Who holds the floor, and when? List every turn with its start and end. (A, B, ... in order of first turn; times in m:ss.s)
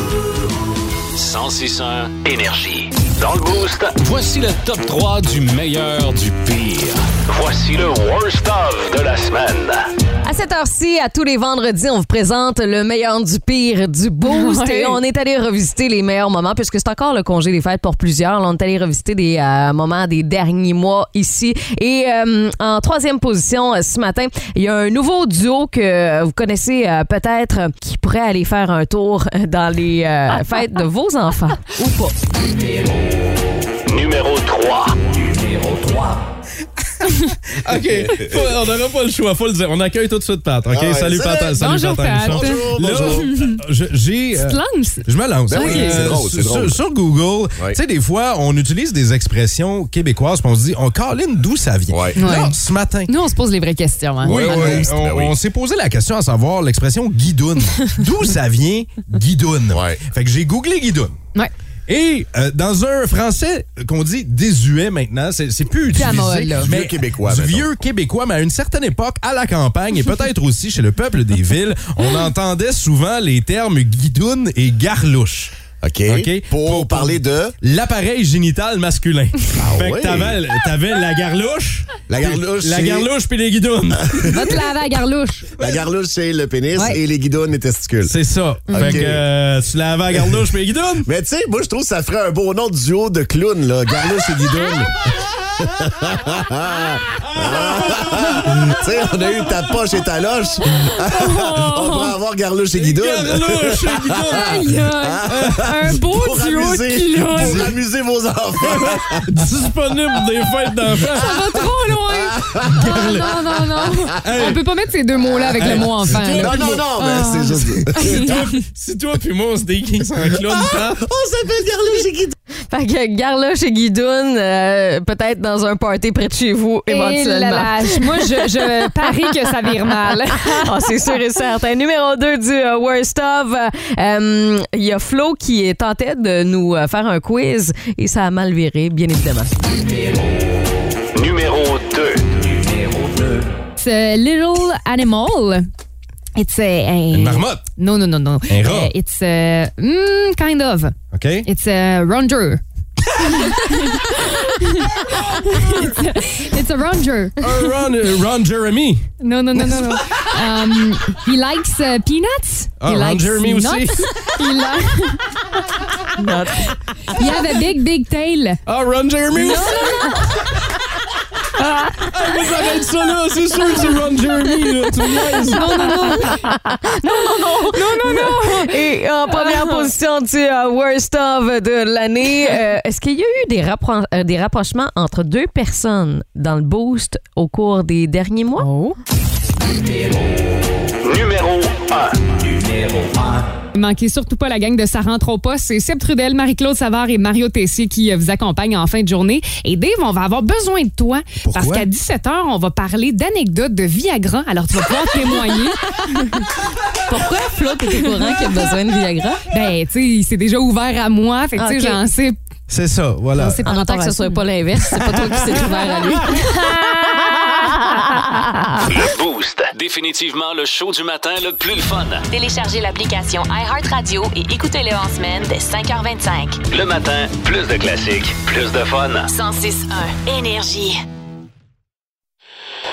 0:01.2-0:09.9 A
0:10.2-0:32.2 B
0:14.3-0:15.0 C
0:33.9-0:35.0 A
0:37.6-0:53.1 D
0:40.7-0:41.6 E
0:41.6-0:43.6 C
0:42.3-0:43.3 E
0:44.4-0:46.1 C
0:45.5-0:46.8 E
0:51.9-0:52.2 E
0:52.2-0:52.6 C
0:53.1-0:54.9 C
0:54.2-1:01.1 D
0:54.3-0:55.4 E
0:59.7-1:00.0 E
1:01.9-1:15.5 D
1:06.0-1:06.7 C
1:06.6-1:07.7 E
1:15.8-1:17.5 E
1:16.1-1:24.6 D
1:19.6-1:20.4 E
1:22.1-1:23.1 E
1:24.2-1:25.5 C
1:25.6-1:28.1 E
1:28.1-1:31.1 D
1:28.7-1:29.1 C
1:28.7-1:29.3 E
1:31.1-1:34.9 E
1:34.1-1:34.7 D
1:35.9-1:40.7 E
1:37.2-1:39.8 D
1:41.0-1:42.1 C
1:41.7-1:44.3 E
1:42.8-1:44.5 D
1:44.3-1:47.7 C
1:45.1-1:49.2 E
1:45.3-1:46.1 D
1:47.1-1:47.8 D
1:48.6-1:51.5 D
1:51.2-1:58.3 C
1:52.6-1:53.4 D
1:54.2-1:54.6 D
1:55.6-2:01.0 D
1:56.2-1:58.2 E
2:01.0-2:02.3 E
2:02.7-2:09.3 B
2:06.9-2:11.2 C
2:10.5-2:19.5 B
2:21.1-2:22.2 A
2:23.8-2:25.7 C
2:26.4-2:32.6 C
2:27.1-2:27.6 D
2:28.5-2:28.9 D
2:31.1-2:31.5 D
2:33.2-2:37.4 C
2:37.4-2:40.0 D
2:39.2-2:45.3 C
2:42.8-2:44.3 D
2:46.2-2:47.2 D
2:47.1-2:48.6 C
2:48.7-2:50.5 D
2:49.3-2:50.2 C
2:51.6-2:56.0 D
2:55.4-3:08.7 B
2:55.4-2:56.5 C
2:57.1-2:59.9 C
3:08.6-3:09.0 C
3:11.0-3:12.3 A
3:13.8-3:26.0 C
3:21.4-3:21.9 D
3:27.1-3:29.4 B
3:29.5-3:32.4 C
3:31.6-3:32.0 B
3:32.7-3:33.6 D
3:33.4-3:34.4 C
3:33.6-3:36.7 B
3:36.3-3:38.2 C
3:37.2-3:39.0 B
3:38.9-3:42.2 A
3:42.3-3:46.6 F
3:46.7-3:49.3 A
3:49.3-3:51.0 F